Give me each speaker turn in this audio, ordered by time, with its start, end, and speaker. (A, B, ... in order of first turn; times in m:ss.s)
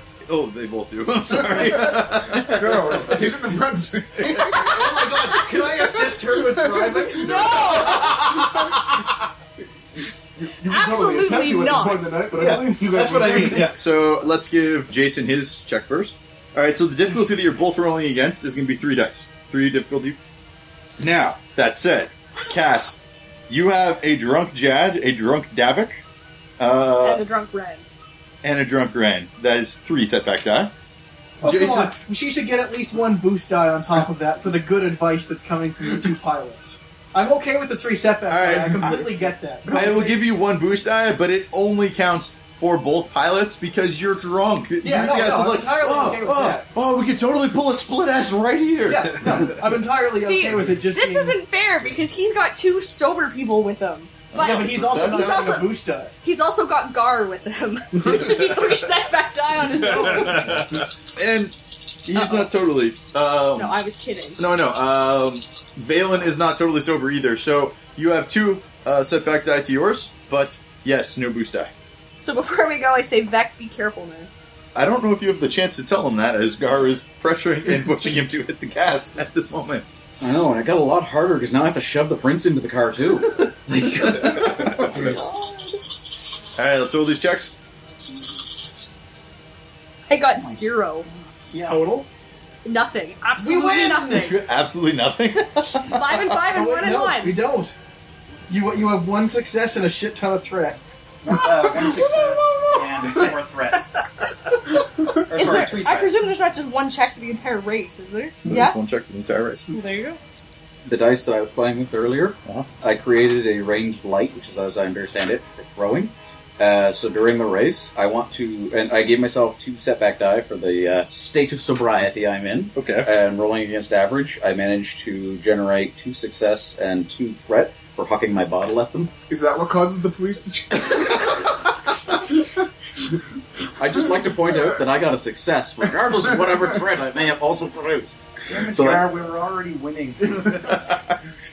0:00.3-0:03.3 A
0:01.6-0:08.8 B
0:04.3-0:05.1 A
0:04.6-0:08.3 C
0:07.2-0:08.4 D
0:10.4-0:13.8 B
0:10.7-0:12.3 D
0:11.6-0:13.8 C
0:13.7-0:20.2 A
0:21.0-0:26.0 A
0:26.6-0:27.2 A
0:27.0-0:27.8 D
0:28.4-0:30.7 A
0:31.4-0:40.2 C
0:31.4-0:32.0 A
0:38.3-0:39.1 A
0:39.7-0:49.6 A
0:44.8-0:46.7 C
0:48.9-0:51.4 C
0:50.2-1:00.9 D
0:54.3-0:55.6 A
0:54.4-0:56.1 C
1:01.2-1:03.8 A
1:03.6-1:04.4 D
1:04.4-1:11.7 A
1:12.2-1:14.3 D
1:14.8-1:19.9 A
1:20.2-1:25.0 E
1:24.1-1:25.2 A
1:24.9-1:25.6 D
1:26.6-1:27.6 A
1:30.1-1:31.1 D
1:30.3-1:30.6 F
1:31.3-1:31.9 F
1:31.6-1:32.1 C
1:32.6-1:34.4 D
1:33.4-1:34.2 C
1:34.0-1:36.4 A
1:35.9-1:37.4 D
1:36.5-1:37.8 C
1:38.5-1:40.8 C
1:41.3-1:43.9 F
1:45.3-1:46.2 F
1:45.3-1:48.8 D
1:48.5-1:49.8 A
1:49.7-1:50.2 D
1:50.8-2:09.1 E
2:02.8-2:03.1 A
2:09.3-2:11.4 B
2:13.8-2:19.1 E
2:18.5-2:20.5 F